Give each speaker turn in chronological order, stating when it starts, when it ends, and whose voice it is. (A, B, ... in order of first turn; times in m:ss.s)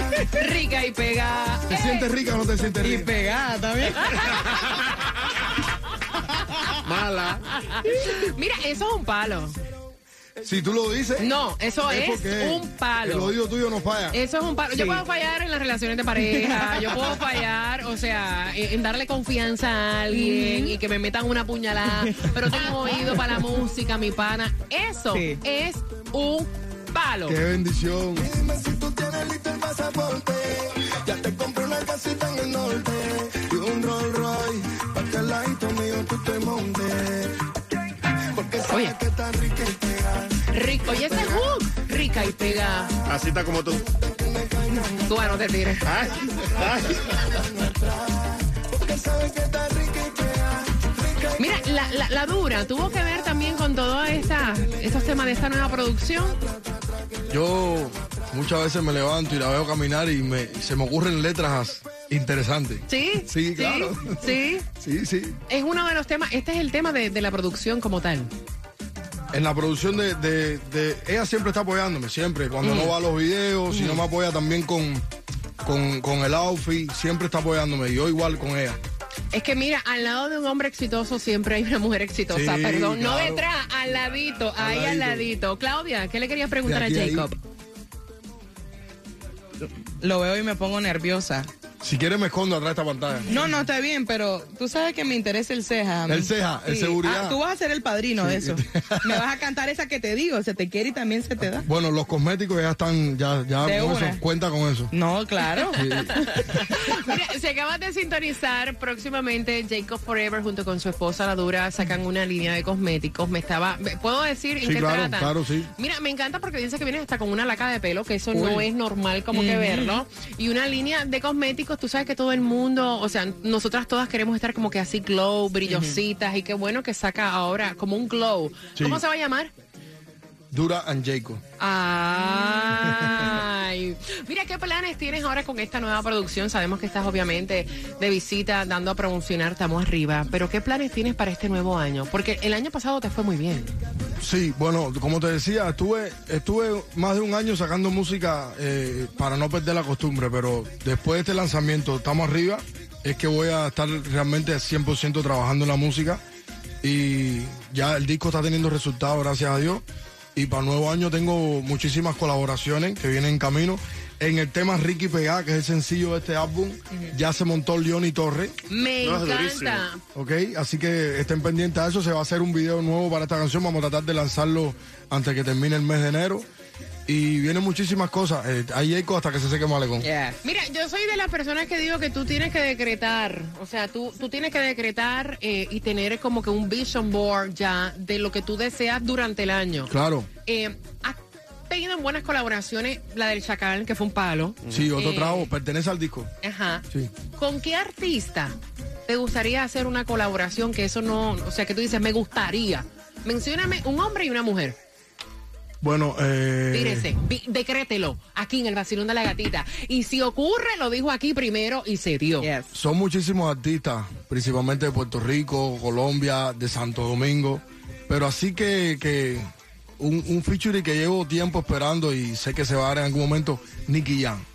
0:00.2-0:02.1 A
0:01.7-0:03.1 B
0:02.8-0:04.8 C
0:06.8-0:07.4 D
0:07.7-0:09.6 A
0:10.4-0:11.3 B
0:11.2-0:13.3 A
0:11.8-0:14.2 B
0:14.1-0:27.4 A
0:14.7-0:15.0 C
0:16.3-0:16.7 C
0:20.1-0:20.8 C
0:22.1-0:23.0 C
0:25.1-0:25.4 C
0:27.3-0:28.3 B
0:28.7-0:37.3 E
0:30.7-0:31.5 B
0:38.4-0:40.4 E
0:38.6-0:39.0 A
0:40.5-0:42.9 A
0:43.1-0:43.9 D
0:44.0-0:44.9 E
0:45.0-0:45.9 A
0:45.8-0:47.4 D
0:47.7-0:51.0 E
0:51.4-0:56.4 A
0:57.3-1:05.4 B
1:02.9-1:04.7 A
1:05.5-1:08.3 A
1:09.3-1:15.0 B
1:12.6-1:13.0 A
1:13.7-1:14.0 A
1:15.6-1:18.8 B
1:19.3-1:27.4 A
1:22.3-1:23.4 B
1:24.6-1:25.3 B
1:26.6-1:27.3 B
1:29.6-1:31.5 C
1:31.8-1:33.4 B
1:33.3-1:41.6 C
1:36.1-1:37.4 B
1:38.2-1:39.2 B
1:41.5-1:44.9 B
1:43.6-1:44.2 C
1:44.9-1:46.5 C
1:45.4-2:09.5 A
1:45.7-1:46.6 B
1:54.6-1:55.7 B
1:58.3-1:58.7 C
1:59.3-2:00.0 C
2:05.6-2:06.0 C
2:08.8-2:09.0 B
2:10.5-2:11.4 B
2:11.6-2:23.7 A
2:13.0-2:13.3 B
2:24.2-2:36.2 B
2:36.8-2:39.8 B
2:40.3-2:48.5 B
2:48.7-2:50.0 A
2:49.0-2:49.8 D
2:50.1-2:56.4 B
2:57.1-3:00.1 B
3:00.0-3:00.3 C
3:00.4-3:09.9 A
3:09.9-3:10.3 B
3:10.4-3:15.5 A
3:14.7-3:16.3 B
3:16.4-3:18.6 A
3:19.1-3:24.8 A
3:25.8-3:27.1 B
3:26.7-3:32.5 A
3:32.4-3:32.7 C
3:32.7-3:39.5 B
3:40.0-3:44.4 B